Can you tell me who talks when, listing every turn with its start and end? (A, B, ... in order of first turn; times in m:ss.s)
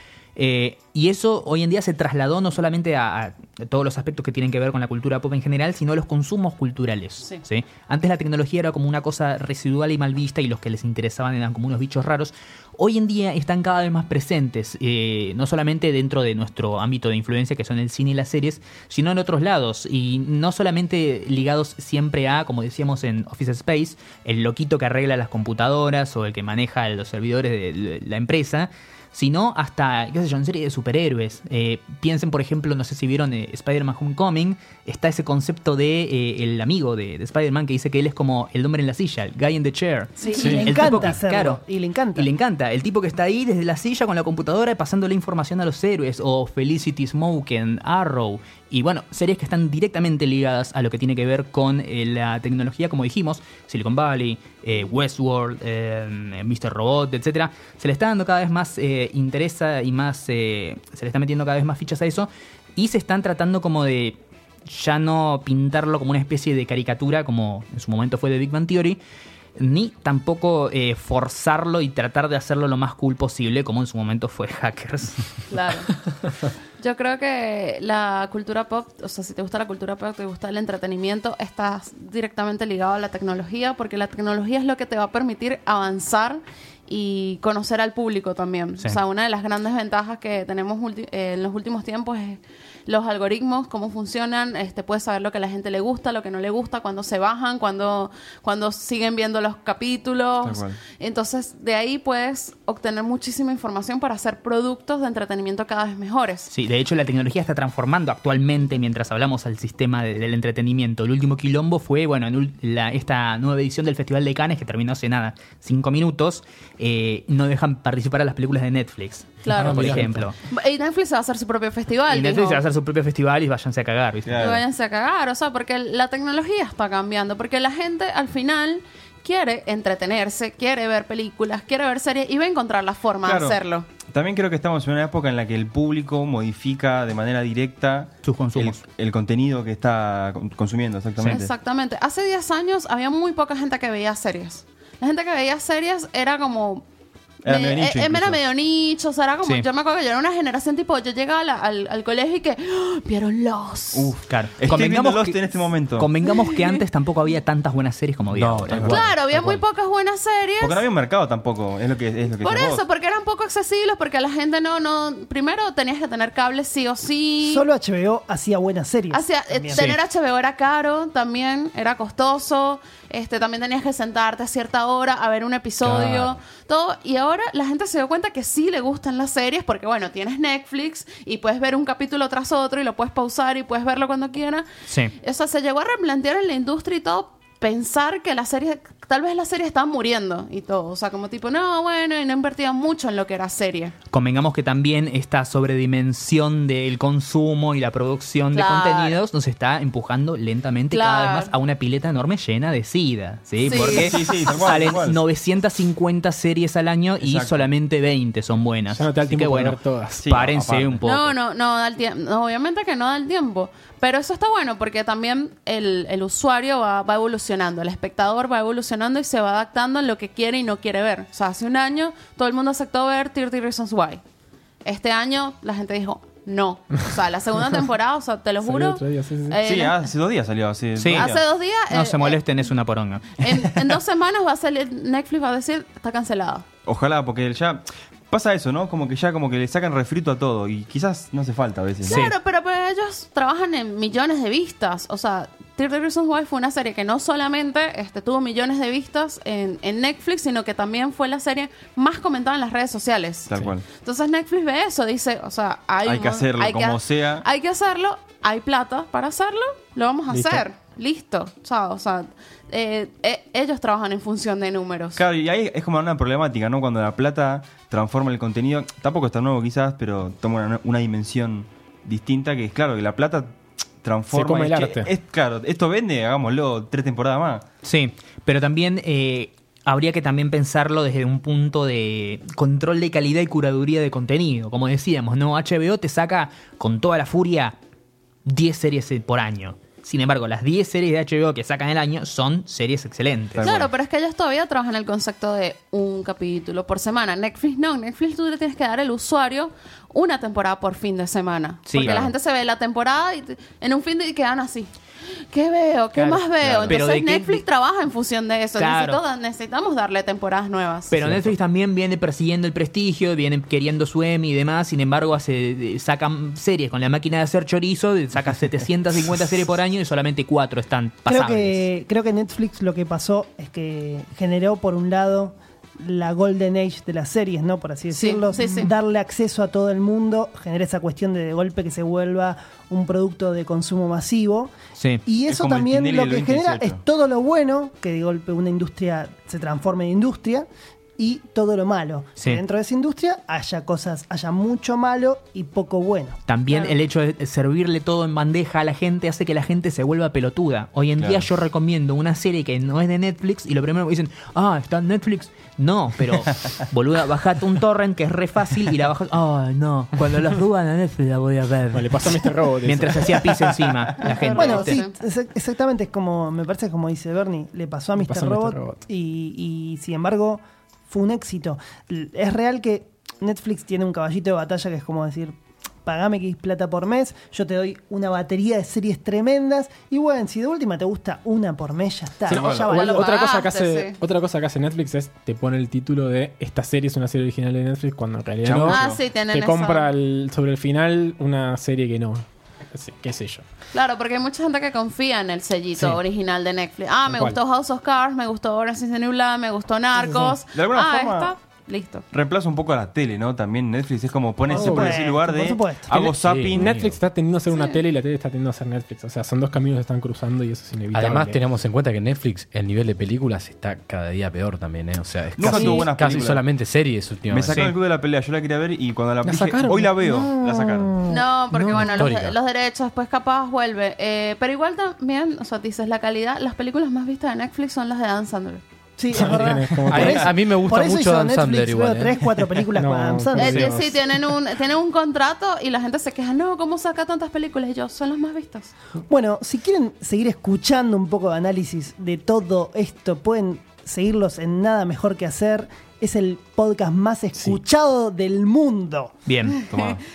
0:00.4-0:41.6 A
0:40.2-0:42.3 B
0:40.2-0:40.6 C
0:42.2-1:09.0 A
1:09.6-1:15.4 A
1:15.5-1:15.9 C
1:16.8-1:46.5 C
1:40.4-1:40.8 D
1:46.5-2:00.4 A
1:59.4-2:02.6 C
1:59.6-2:00.3 E
2:02.1-2:04.5 A
2:04.3-2:04.6 D
2:04.4-2:13.9 C
2:13.2-2:21.5 D
2:18.2-2:18.8 A
2:21.2-2:21.5 A
2:21.3-2:26.8 C
2:27.4-2:28.4 D
2:27.4-2:34.2 C
2:34.0-2:36.1 D
2:34.2-2:39.2 A
2:36.3-2:36.8 C
2:38.3-2:39.6 E
2:38.7-2:39.1 D
2:38.8-2:40.9 C
2:40.6-2:42.8 D
2:42.4-2:47.6 C
2:47.4-2:49.8 B
2:49.1-3:14.0 C
2:49.7-2:50.0 A
2:55.8-2:56.2 E
3:04.9-3:05.1 A
3:14.1-3:31.3 A
3:18.5-3:19.2 C
3:20.9-3:21.5 C
3:23.6-3:24.9 C
3:23.6-3:25.2 D
3:27.2-3:27.7 D
3:28.9-3:30.3 F
3:30.2-3:31.0 D
3:31.0-3:44.2 C
3:44.8-3:50.1 C
3:48.6-3:49.6 F
3:49.6-3:51.4 D
3:51.0-3:53.9 A
3:51.1-3:52.4 C
3:53.4-3:56.7 C
3:56.9-4:02.3 D
4:02.0-4:25.2 C
4:02.1-4:02.4 A
4:13.5-4:13.9 D
4:16.0-4:17.4 D
4:20.3-4:20.6 F
4:25.2-4:37.6 D
4:34.3-4:35.1 F
4:37.8-4:47.8 A
4:48.4-4:53.7 A
4:53.6-4:53.9 D
4:53.6-5:04.9 C
5:01.9-5:02.3 A
5:05.5-5:11.2 C
5:06.2-5:07.6 A
5:06.6-5:07.0 D
5:08.8-5:09.2 A
5:11.1-5:21.8 A
5:11.3-5:11.5 E
5:21.3-5:34.7 B
5:28.1-5:28.9 C
5:35.0-5:35.2 A
5:35.2-5:40.7 B
5:35.5-5:37.0 D
5:41.2-5:46.4 B
5:46.5-6:05.0 A
5:51.2-5:51.5 D
6:01.9-6:03.7 F
6:04.2-6:05.2 C
6:04.5-6:23.3 B
6:08.2-6:09.0 F
6:22.5-6:23.0 D
6:22.5-6:33.6 F
6:22.8-6:24.2 C
6:28.6-6:29.2 D
6:28.8-6:30.1 C
6:33.9-6:42.3 C
6:37.3-6:37.6 F
6:40.2-6:40.5 B
6:40.7-6:41.5 D
6:42.3-6:47.0 D
6:44.7-6:46.2 B
6:44.7-6:45.2 F
6:46.1-6:47.2 E
6:46.7-6:51.6 F
6:51.1-6:57.9 E
6:55.6-6:56.7 D
6:57.5-7:01.2 D
6:59.4-7:00.3 F
7:01.2-7:02.6 E
7:01.3-7:08.8 C
7:09.2-7:14.0 B
7:09.3-7:10.6 F
7:10.1-7:12.5 E
7:12.9-7:14.2 F
7:13.6-7:18.9 C
7:19.3-7:29.3 B
7:29.5-7:29.8 A
7:29.8-7:30.1 C
7:29.9-7:30.2 D